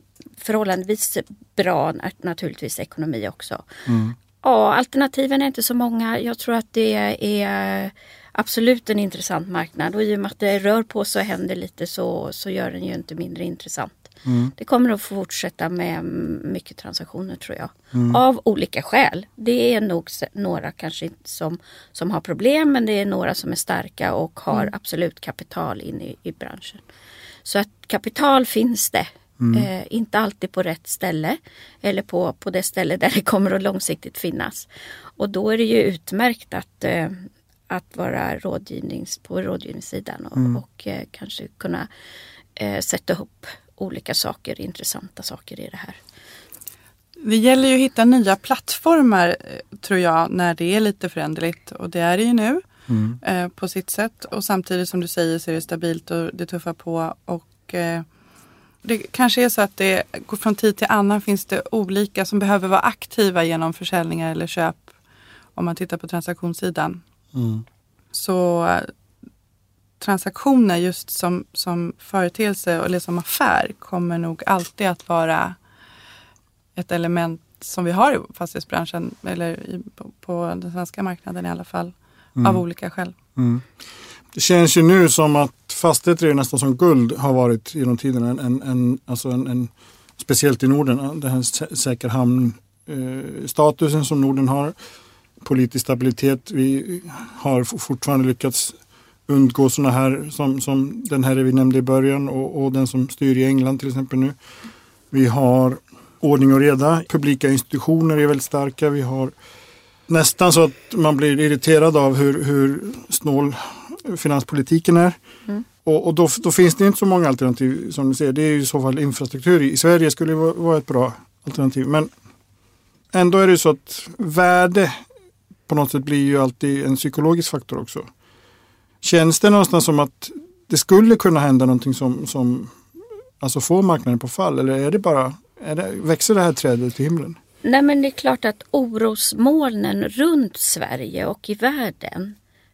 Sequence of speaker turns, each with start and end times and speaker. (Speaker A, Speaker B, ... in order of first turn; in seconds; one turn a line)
Speaker A: 0.4-3.7
Speaker B: 3.9-4.2
Speaker A: 4.4-26.8
Speaker B: 14.2-14.5
Speaker B: 17.9-18.2
Speaker A: 27.4-41.9
Speaker B: 29.4-29.7
Speaker A: 42.6-46.0
Speaker C: 47.2-52.6
Speaker B: 52.9-53.2
Speaker C: 53.2-58.1
Speaker C: 58.8-64.9
Speaker C: 65.5-67.0
Speaker B: 67.3-67.6
Speaker C: 68.1-68.9
Speaker C: 70.0-75.6
Speaker C: 76.8-83.2
Speaker B: 83.4-83.7
Speaker B: 84.3-94.8
Speaker B: 95.4-98.8
Speaker B: 99.3-104.4
Speaker B: 105.1-109.3
Speaker B: 110.1-115.2
Speaker B: 115.8-122.1
Speaker B: 123.1-125.0
Speaker B: 125.7-128.1
Speaker B: 129.0-132.8
Speaker B: 133.4-137.4
Speaker A: 137.6-142.3